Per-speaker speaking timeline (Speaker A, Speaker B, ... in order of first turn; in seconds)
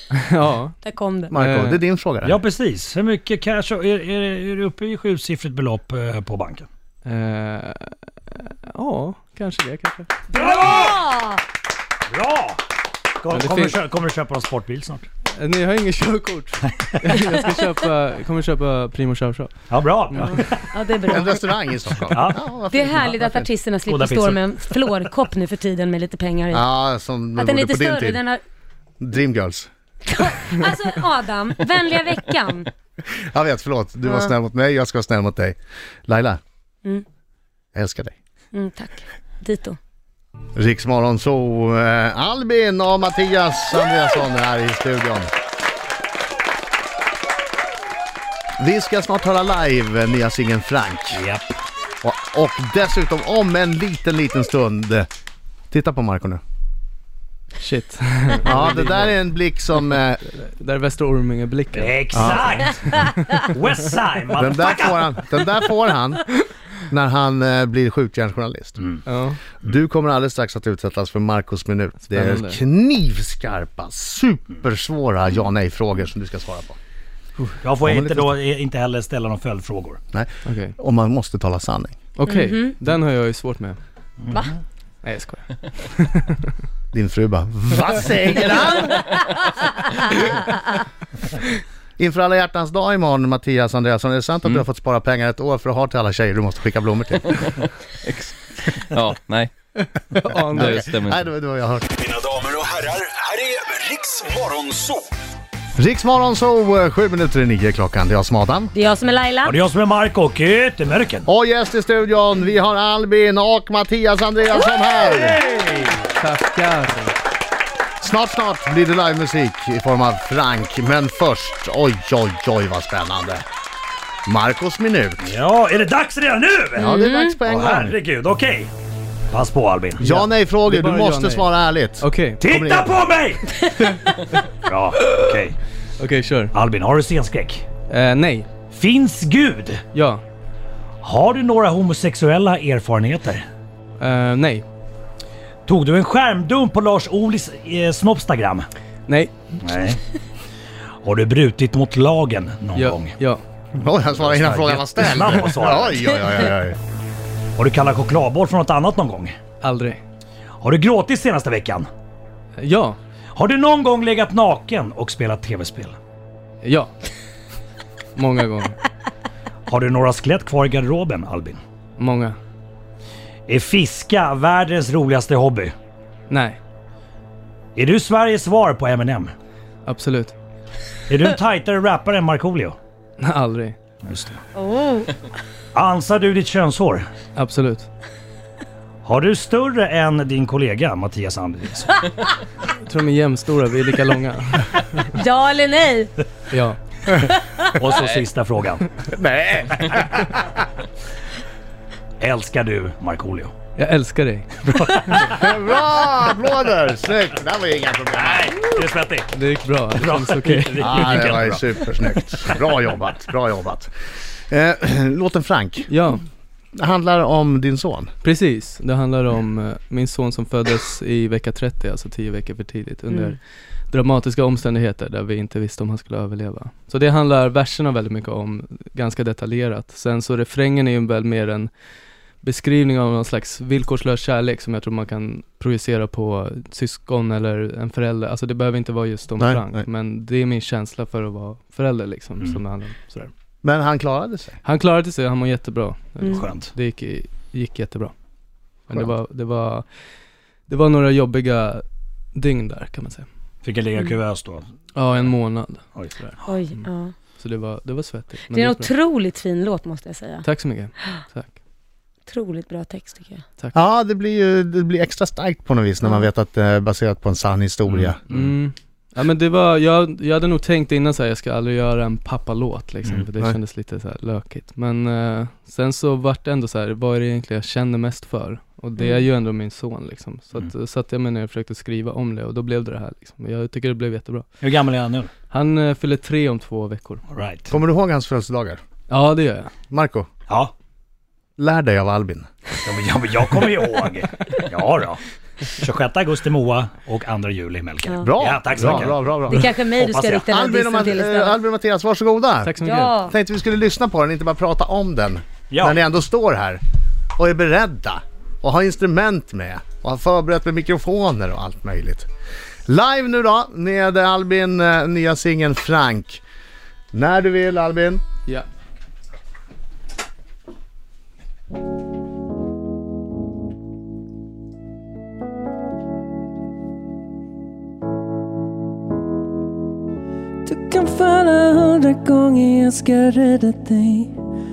Speaker A: 0.1-0.8, 1.3-1.8, 7.0-10.1, 13.3-13.8, 15.3-20.4, 57.6-59.3, 60.2-63.1, 69.0-69.4, 72.1-72.6, 80.4-80.7, 82.2-83.8, 85.0-86.3, 100.1-100.9, 116.2-117.2, 130.0-132.4, 136.0-136.5, 137.9-138.5, 139.9-140.2, 144.0-144.7, 149.1-149.3, 152.7-153.4, 159.6-160.0, 162.6-163.0, 166.6-166.9, 168.1-168.8, 172.0-172.4, 176.3-176.6, 179.8-180.3, 183.2-183.8, 187.3-187.9, 192.8-195.1, 196.5-196.8, 203.8-204.6, 209.3-211.2, 215.9-216.2, 218.2-223.4, 223.9-231.7, 232.4-243.3, 244.6-248.1, 248.9-249.8, 250.7-251.8, 252.3-253.3, 254.9-256.4, 257.4-258.9, 260.4-261.6, 268.3-284.5, 285.5-287.2, 289.1-289.7, 302.6-303.1
Speaker B: 0.8-1.3, 10.3-11.4, 20.2-21.5, 22.7-26.7, 27.4-28.4, 30.1-32.7, 34.0-34.3, 38.5-39.8, 82.3-82.7, 108.7-109.6, 126.8-127.4, 184.6-185.1, 195.1-196.2, 197.2-197.7, 256.4-257.1, 258.5-260.4, 262.3-263.4, 298.1-298.4, 299.5-301.6, 302.8-303.3
Speaker C: 1.3-2.4, 21.1-23.5, 26.5-28.2, 29.0-29.7, 33.3-36.4, 37.7-38.1, 40.5-45.3, 48.6-51.2, 52.0-55.1, 55.7-56.4, 58.4-60.2, 62.1-62.7, 64.3-66.3, 66.9-68.9, 69.6-76.8, 77.8-78.3, 80.1-82.0, 86.9-89.2, 92.0-97.6, 100.5-101.9, 105.8-108.7, 111.3-115.4, 118.0-123.4, 124.2-125.3, 126.8-128.0, 130.0-133.0, 153.7-156.8, 199.1-200.6, 205.2-208.6, 210.8-213.9, 214.5-215.9, 216.8-218.1, 239.4-239.8, 243.6-244.6, 263.7-268.2, 287.7-288.8, 289.9-290.3, 291.6-292.5, 298.2-299.7, 300.5-306.8, 307.4-312.3, 312.9-316.4, 317.1-318.2
Speaker D: 2.2-6.7, 10.3-10.9, 12.1-12.6, 13.2-15.1, 19.7-20.7, 22.1-22.4, 23.9-24.6, 51.1-51.4, 61.7-65.1, 77.6-80.0, 84.2-84.6, 109.4-111.2, 115.0-116.1, 125.2-126.9, 127.4-128.7, 129.3-130.0, 132.4-133.5, 134.7-135.6, 136.5-137.7, 138.7-139.8, 141.0-143.4, 145.7-148.7, 149.6-150.0, 151.0-153.1, 154.1-156.2, 157.6-159.3, 160.6-161.9, 163.3-166.0, 169.7-171.6, 173.5-175.7, 177.8-179.3, 181.1-182.8, 184.0-184.4, 185.7-187.1, 189.0-192.0, 197.8-198.9, 202.2-203.5, 204.7-205.5, 208.1-209.3, 209.9-212.6, 246.2-246.7, 253.6-254.6, 255.9-256.5, 267.9-268.5, 284.6-285.3, 287.3-287.7, 292.8-300.5, 305.7-306.0
Speaker E: 98.0-99.5, 100.5-101.3
Speaker F: 102.2-105.0
Speaker G: 330.6-334.3